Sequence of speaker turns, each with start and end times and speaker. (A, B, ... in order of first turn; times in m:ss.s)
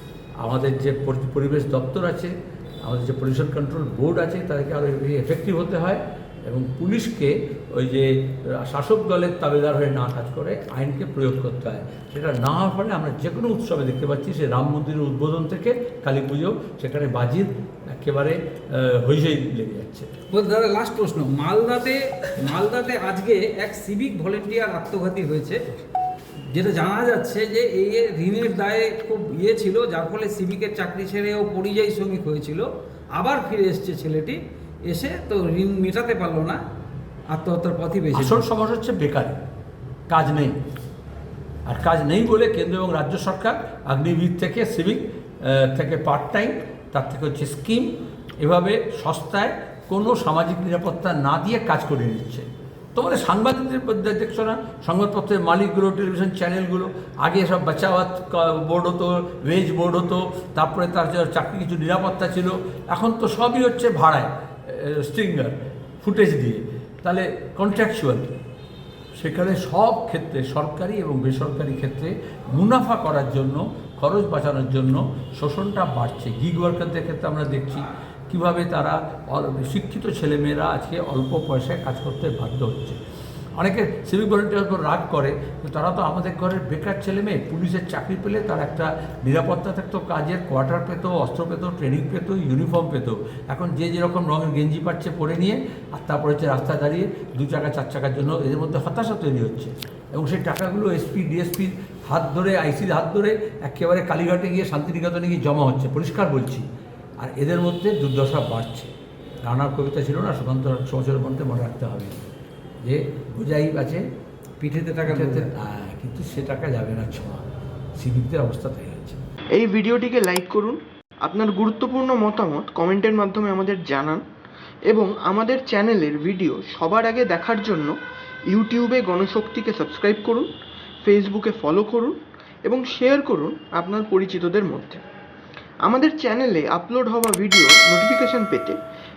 0:00.4-0:20.1 A
0:20.3-0:25.6 B
0:26.5-0:36.6 B
0:37.3-0:38.4 B
0:38.1-0:39.4 A
0:40.1-0:40.6 A
0:41.7-1:08.3 A
1:09.2-1:23.0 A
1:23.6-1:46.7 A
1:47.2-1:48.9 A
1:49.4-1:52.2 A
1:52.8-1:54.0 A
1:54.6-1:55.5 B
1:55.1-1:57.5 A
1:58.0-1:59.2 A
1:59.6-2:04.2 C
2:04.9-2:08.0 C
2:08.5-2:10.5 C
2:11.0-2:15.0 C
2:15.9-2:18.8 C